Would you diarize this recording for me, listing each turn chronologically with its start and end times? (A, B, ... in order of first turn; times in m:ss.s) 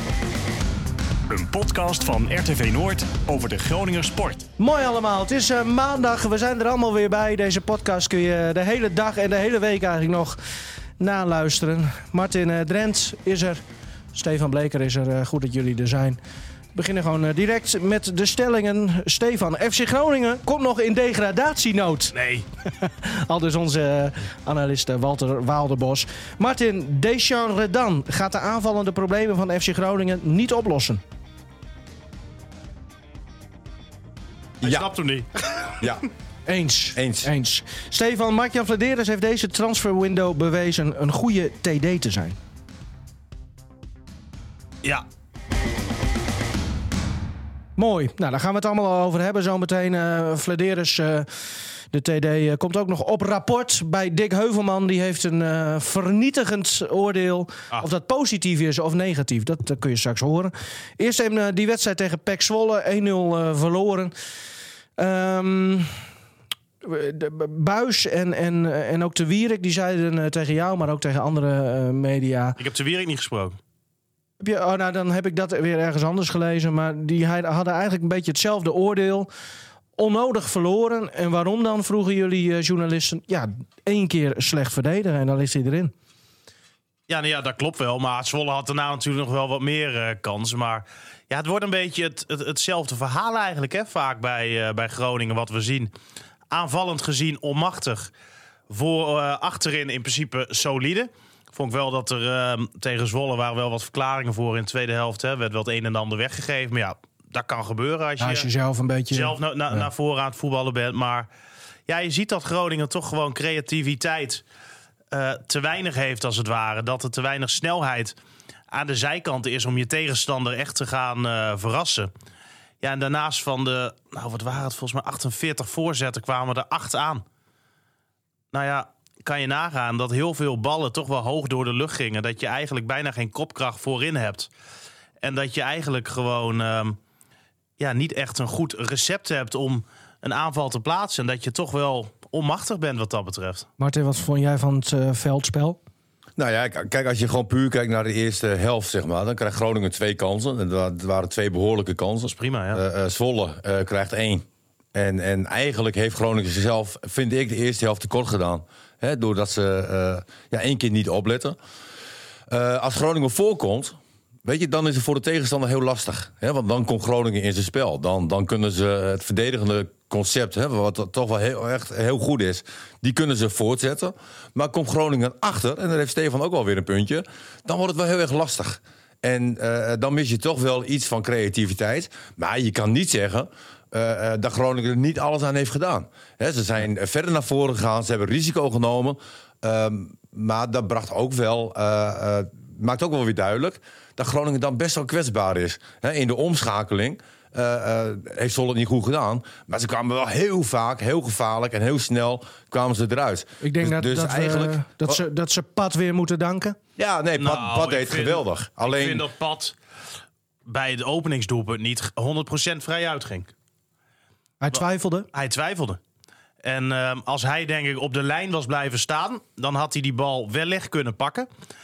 0:01.3-0:04.5 A
0:04.6-0:10.4 B
0:11.0-0:13.6 B
0:14.1-0:16.2 B
0:16.7-0:22.1 B
0:22.1-0:22.4 C
0:22.6-0:31.0 B
0:34.6-0:35.8 C
0:34.6-0:34.9 D
0:35.8-0:36.1 D
0:36.5-0:42.4 B
0:37.0-0:37.3 D
0:47.8-0:51.3 B
0:51.9-1:04.1 B
1:05.0-1:05.9 B
1:06.8-1:12.6 B
1:12.6-1:13.6 C
1:14.4-1:19.3 B
1:20.0-1:25.9 B
1:27.1-1:35.9 C
1:36.5-1:38.1 C
1:38.7-1:48.5 C
1:48.2-1:49.4 B
1:49.1-1:51.3 C
1:51.9-1:54.4 C
1:55.1-1:58.2 C
1:58.7-2:02.1 C
2:02.8-2:07.2 C
2:08.5-2:14.5 C
2:15.2-2:17.0 C
2:17.8-2:23.7 C
2:23.8-2:25.8 B
2:26.4-2:41.6 D
2:32.3-2:32.8 C
2:42.5-3:25.2 D
3:23.6-3:26.8 B
3:27.0-3:29.2 D
3:27.4-3:29.7 C
3:30.6-3:33.5 C
3:34.6-3:35.3 B
3:35.3-3:36.0 C
3:36.6-3:41.5 C